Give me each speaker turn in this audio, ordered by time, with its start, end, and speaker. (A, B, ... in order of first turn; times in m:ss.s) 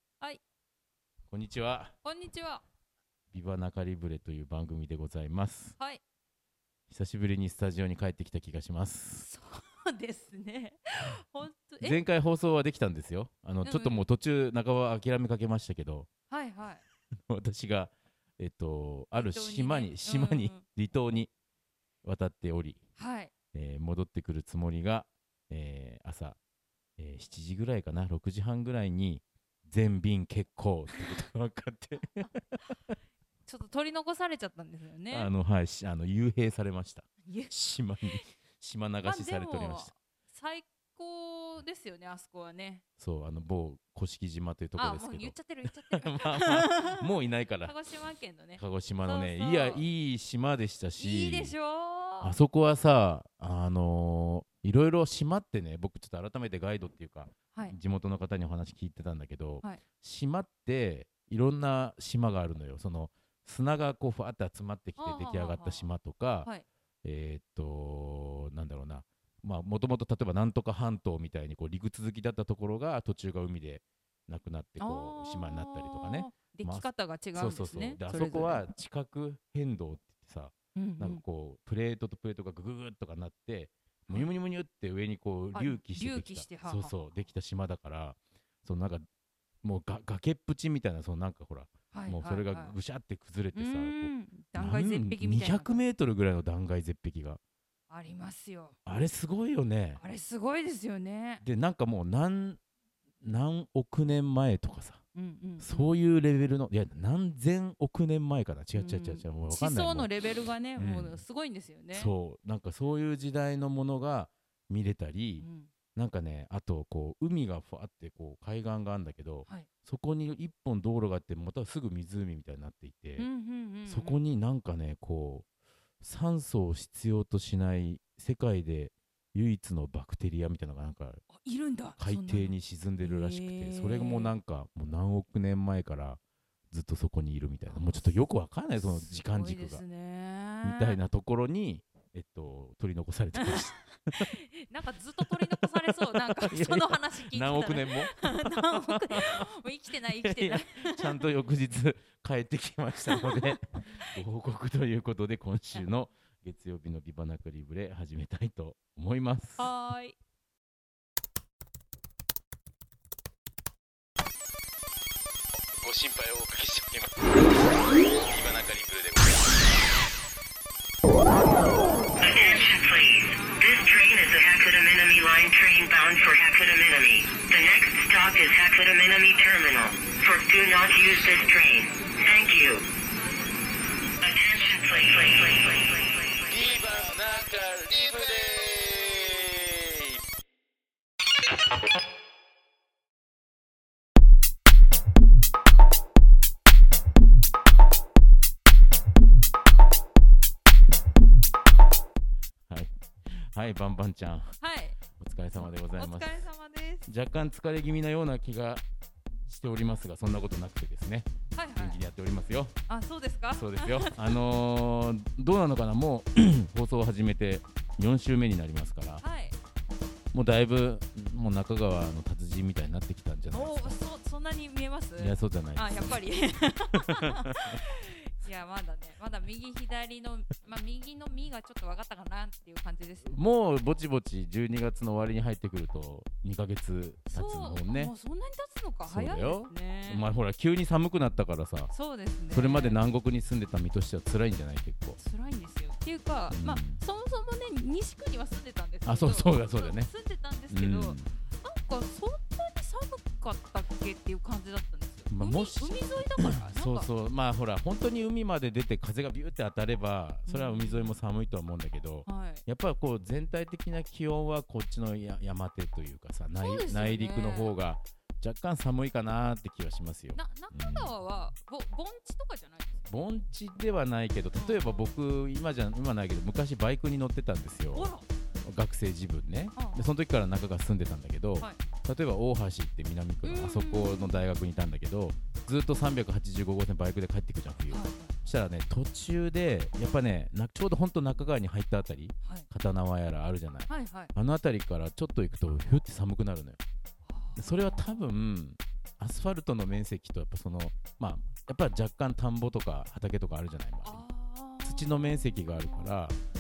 0:01.3-0:01.9 A
0:02.0-0:02.6 B
0:03.3-0:05.8 A
0:06.9-0:09.3 A
0:09.2-0:12.0 B
0:11.8-0:16.1 A
0:13.6-0:14.0 B
0:16.3-0:16.8 B
0:17.1-0:21.3 A
0:19.2-0:20.6 B
0:22.0-0:22.8 A
0:23.0-0:23.3 B
0:23.5-0:26.4 A
0:27.0-0:33.0 A
0:33.5-0:35.3 B
0:35.1-0:39.9 A
0:37.3-0:37.5 B
0:39.0-0:42.8 B
0:43.0-0:47.7 A
0:44.8-0:47.1 B
0:47.6-0:49.8 B
0:48.6-0:51.6 A
0:51.0-0:52.4 B
0:52.2-1:06.5 A
1:05.0-1:05.9 B
1:07.0-1:29.1 A
1:14.8-1:18.6 B
1:20.8-1:21.2 B
1:25.5-1:26.9 B
1:29.6-1:37.4 A
1:31.9-1:32.8 B
1:33.6-1:35.8 B
1:37.9-1:38.8 B
1:38.8-1:40.0 A
1:40.0-1:41.4 B
1:41.4-1:42.6 A
1:43.2-1:45.0 A
1:45.2-1:45.9 B
1:45.6-1:50.1 A
1:48.7-1:52.1 B
1:50.8-1:51.2 A
1:51.9-2:03.3 A
1:55.4-1:55.7 B
2:03.2-2:04.2 B
2:03.9-2:05.5 A
2:06.0-2:11.2 A
2:11.3-2:14.4 B
2:12.0-2:16.2 A
2:16.7-2:19.8 A
2:17.7-2:18.2 B
2:18.8-2:21.0 B
2:20.6-2:24.3 A
2:23.4-2:31.2 B
2:25.2-2:29.5 A
2:30.1-2:39.7 A
2:33.1-2:34.1 B
2:39.6-2:40.2 B
2:45.7-2:47.3 A
2:48.2-2:49.5 A
2:52.2-3:02.9 C
3:04.2-3:06.9 C
3:06.5-3:10.2 A
3:22.7-3:24.6 A
3:24.6-3:25.0 B
3:25.2-3:26.3 A
3:25.6-3:27.1 B
3:27.1-3:28.8 A
3:29.5-3:32.8 A
3:31.5-3:32.0 B
3:32.9-3:34.4 B
3:33.6-3:39.2 A
3:39.2-3:39.6 B
3:40.3-3:44.0 A
3:43.5-3:53.4 B
3:45.2-3:46.2 A
3:46.9-3:47.8 A
3:53.2-3:58.1 A
3:57.3-4:00.2 B
3:59.1-4:01.9 A
4:01.9-4:03.0 B
4:02.5-4:05.2 A
4:05.2-4:17.1 B
4:06.5-4:07.0 A
4:09.1-4:10.1 A
4:10.7-4:11.3 A
4:15.3-4:31.1 A
4:20.5-4:21.2 B
4:22.3-4:22.6 B
4:26.6-4:27.8 B
4:30.3-4:33.1 B
4:33.1-4:56.8 A
4:34.6-4:35.1 B
4:37.9-4:38.3 B
4:39.8-4:40.1 B
4:43.4-4:44.5 B
4:47.9-4:48.5 B
4:53.9-4:54.3 B
4:57.3-4:58.3 B
4:57.6-5:04.2 A
5:04.0-5:06.2 B
5:04.8-5:06.4 A